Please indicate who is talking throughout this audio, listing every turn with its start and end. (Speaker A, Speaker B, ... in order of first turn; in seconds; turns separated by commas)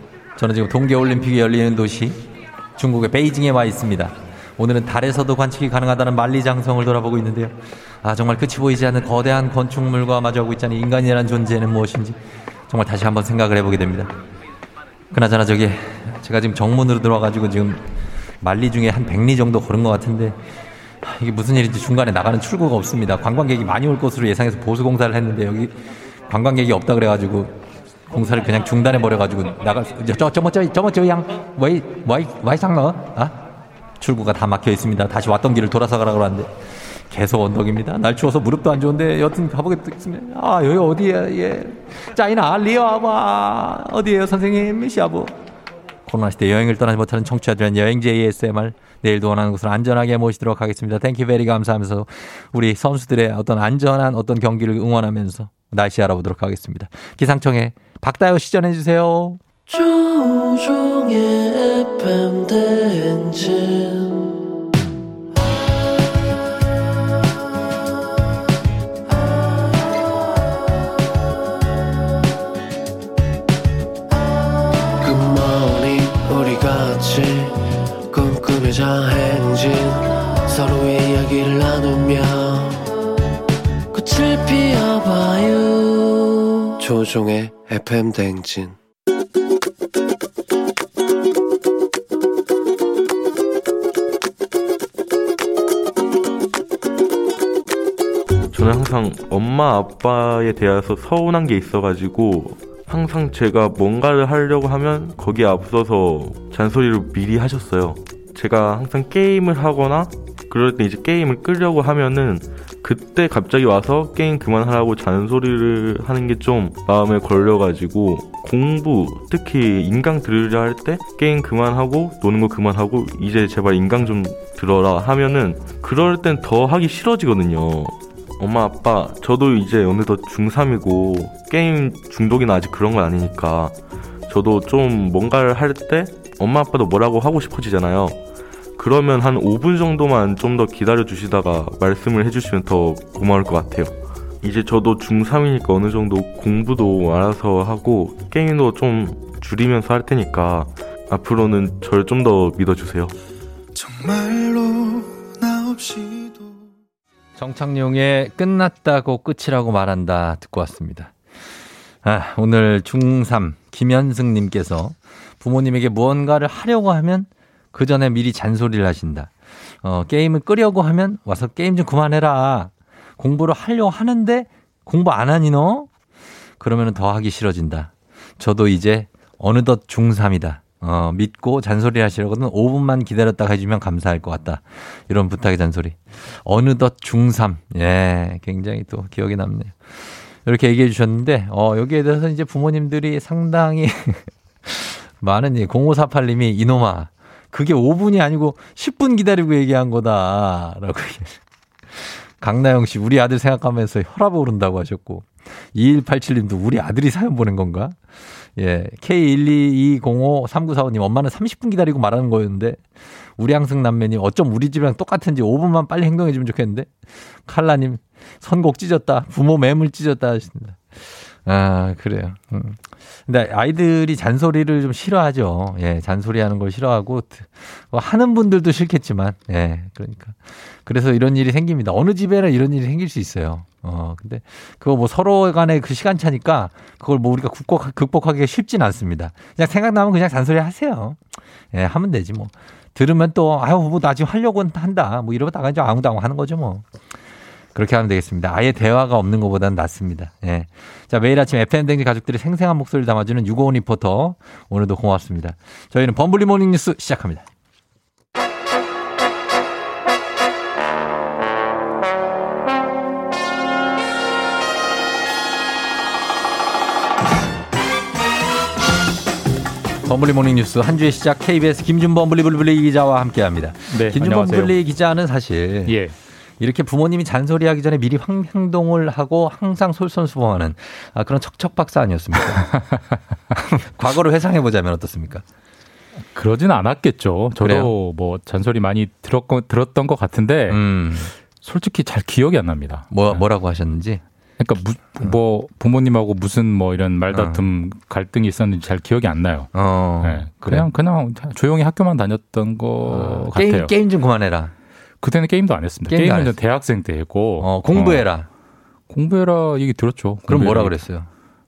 Speaker A: 0.3-2.2, Speaker A: 2.8-14.1, Speaker A: 15.1-17.9, Speaker A: 18.4-20.4, Speaker A: 21.0-27.5, Speaker A: 28.1-33.4, Speaker A: 34.0-36.5, Speaker A: 37.1-45.4, Speaker A: 46.0-59.4, Speaker B: 59.7-64.2, Speaker B: 75.0-82.8, Speaker B: 83.9-88.7, Speaker C: 98.5-133.7, Speaker C: 134.3-138.2, Speaker C: 138.8-153.1, Speaker D: 153.8-156.6, Speaker A: 157.4-161.1, Speaker A: 162.0-169.3, Speaker A: 169.8-175.9, Speaker A: 176.6-201.4, Speaker A: 201.9-208.0, Speaker A: 208.6-212.8, Speaker A: 213.4-246.8, Speaker A: 247.7-257.4, Speaker A: 270.0-276.0, Speaker E: 273.9-274.7, Speaker E: 275.9-276.1, Speaker A: 276.6-282.7, Speaker E: 282.5-283.2, Speaker A: 283.5-285.4, Speaker E: 286.3-290.8, Speaker A: 287.6-287.9, Speaker A: 290.7-291.3, Speaker E: 291.6-293.4, Speaker A: 293.1-294.2, Speaker E: 294.6-303.9, Speaker A: 297.3-297.6, Speaker A: 299.7-300.9, Speaker A: 303.0-304.7, Speaker E: 305.2-308.3, Speaker A: 306.1-306.5, Speaker A: 307.6-308.5, Speaker E: 309.1-311.0, Speaker A: 310.5-311.3